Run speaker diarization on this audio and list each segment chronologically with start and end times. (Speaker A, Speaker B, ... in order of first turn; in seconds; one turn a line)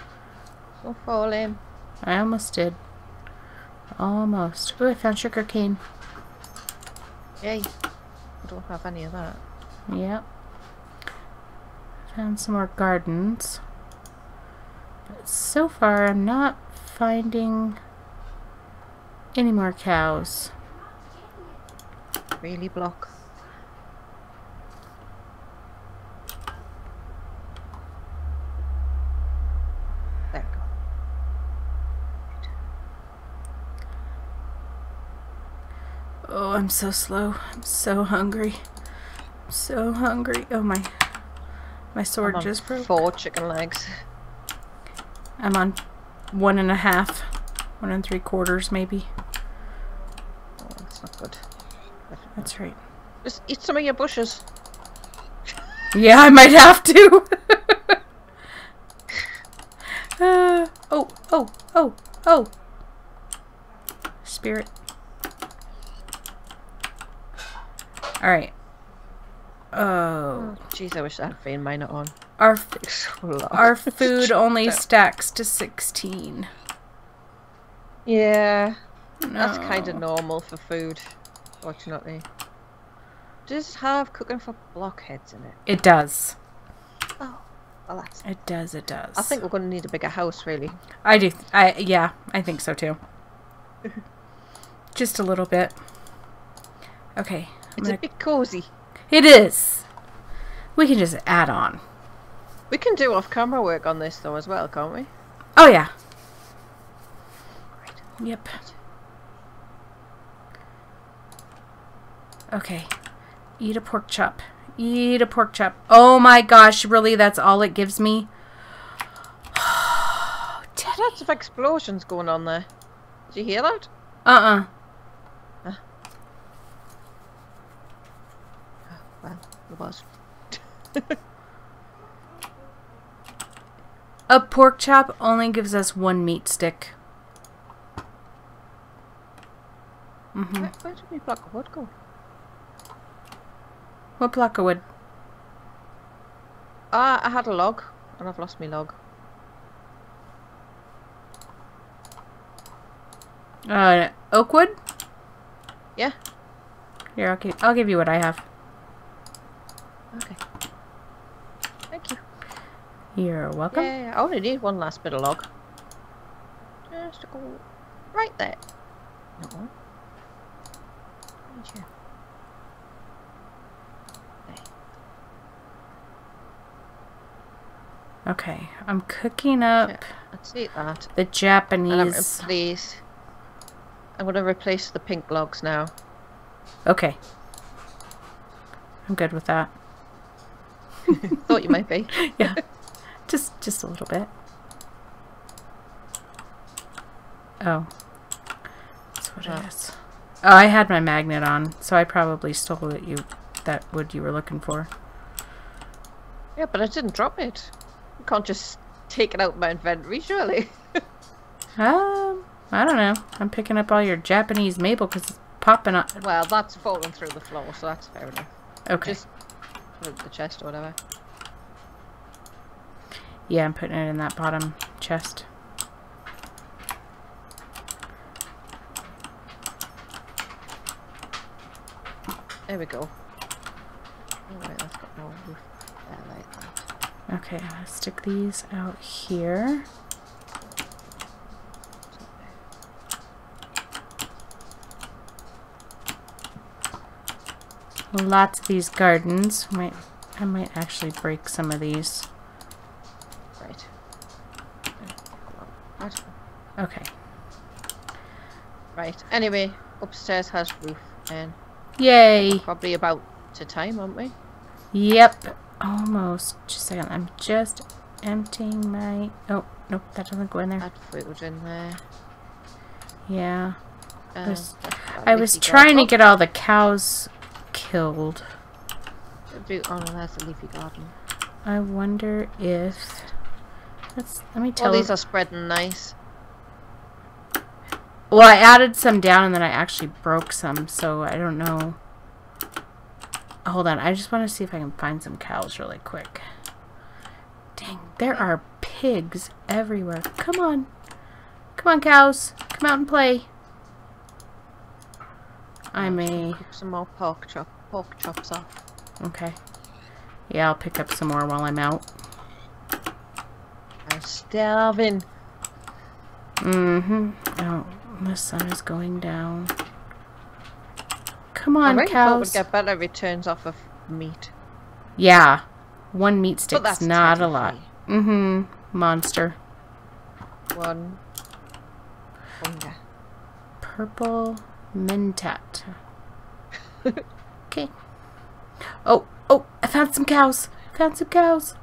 Speaker A: 0.8-1.6
Speaker B: 2.0-2.8
Speaker B: 4.0-5.8
Speaker A: 7.4-7.7
Speaker A: 8.4-9.4
Speaker B: 9.9-10.2
Speaker B: 12.1-13.6
Speaker B: 15.1-17.8
Speaker B: 19.3-20.5
Speaker A: 22.4-23.1
Speaker A: 30.3-30.6
Speaker B: 36.2-38.6
Speaker B: 39.5-41.0
Speaker B: 41.9-42.9
Speaker A: 42.2-44.0
Speaker B: 45.4-45.8
Speaker B: 46.3-47.3
Speaker B: 47.8-49.1
Speaker A: 50.6-51.4
Speaker A: 52.1-52.5
Speaker B: 52.4-52.8
Speaker A: 53.2-54.4
Speaker B: 55.9-58.0
Speaker B: 60.2-62.5
Speaker B: 64.2-64.7
Speaker B: 68.2-68.5
Speaker B: 69.7-70.6
Speaker A: 70.3-72.2
Speaker B: 72.4-72.7
Speaker A: 72.7-74.8
Speaker B: 73.5-76.5
Speaker A: 78.0-78.8
Speaker B: 79.2-80.0
Speaker A: 79.4-81.0
Speaker A: 81.6-82.2
Speaker A: 83.5-85.6
Speaker B: 85.7-86.4
Speaker A: 87.2-88.3
Speaker B: 88.2-89.4
Speaker A: 89.1-90.8
Speaker B: 91.0-93.0
Speaker B: 94.9-95.8
Speaker B: 97.2-98.0
Speaker A: 97.8-98.7
Speaker B: 99.1-99.8
Speaker B: 100.8-101.8
Speaker A: 102.7-105.1
Speaker B: 105.5-105.9
Speaker B: 108.2-108.6
Speaker B: 112.5-112.9
Speaker B: 113.6-118.3
Speaker B: 119.5-121.1
Speaker A: 120.8-122.7
Speaker A: 123.3-123.9
Speaker B: 124.2-124.7
Speaker A: 128.9-131.2
Speaker B: 134.3-136.9
Speaker B: 140.3-140.7
Speaker A: 140.6-141.9
Speaker B: 144.2-144.8
Speaker A: 146.9-149.0
Speaker B: 153.7-154.7
Speaker B: 157.2-158.4
Speaker A: 160.1-160.4
Speaker A: 161.9-162.2
Speaker B: 163.2-163.9
Speaker A: 163.7-165.5
Speaker A: 166.9-168.6
Speaker A: 169.4-169.7
Speaker A: 171.5-171.9
Speaker B: 178.3-180.0
Speaker A: 179.8-181.1
Speaker B: 181.2-182.4
Speaker A: 181.9-183.0
Speaker A: 184.2-185.9
Speaker B: 186.8-187.2
Speaker B: 189.1-189.7
Speaker A: 191.1-192.6
Speaker B: 192.1-192.6
Speaker B: 193.3-194.3
Speaker B: 197.6-197.9
Speaker B: 199.2-204.9
Speaker A: 206.6-207.7
Speaker A: 208.2-211.0
Speaker B: 211.8-216.2
Speaker A: 216.2-219.3
Speaker B: 218.9-219.2
Speaker A: 220.0-220.9
Speaker B: 223.5-225.5
Speaker A: 232.7-233.1
Speaker A: 234.5-236.8
Speaker B: 237.3-239.9
Speaker A: 242.1-242.5
Speaker B: 248.1-252.3
Speaker A: 253.6-253.9
Speaker A: 255.0-256.3
Speaker B: 256.8-257.1
Speaker A: 258.9-261.6
Speaker B: 262.0-262.6
Speaker A: 262.4-264.3
Speaker B: 264.9-270.9
Speaker A: 270.8-272.0
Speaker B: 273.3-273.8
Speaker A: 274.3-276.1
Speaker B: 274.4-274.7
Speaker B: 275.2-278.5
Speaker A: 279.5-281.1
Speaker B: 281.6-283.3
Speaker B: 284.1-285.1
Speaker A: 284.8-286.1
Speaker B: 288.3-292.0
Speaker B: 293.6-296.4
Speaker B: 297.8-300.9
Speaker B: 301.8-303.5
Speaker A: 305.9-308.8
Speaker B: 305.9-306.6
Speaker B: 309.2-309.6
Speaker B: 310.5-312.1
Speaker A: 314.1-315.2
Speaker B: 316.6-319.7
Speaker B: 321.5-322.6
Speaker A: 321.8-324.5
Speaker B: 325.2-329.6
Speaker A: 326.7-327.9
Speaker A: 330.7-331.2
Speaker A: 332.6-333.0
Speaker B: 333.8-335.9
Speaker B: 339.0-341.8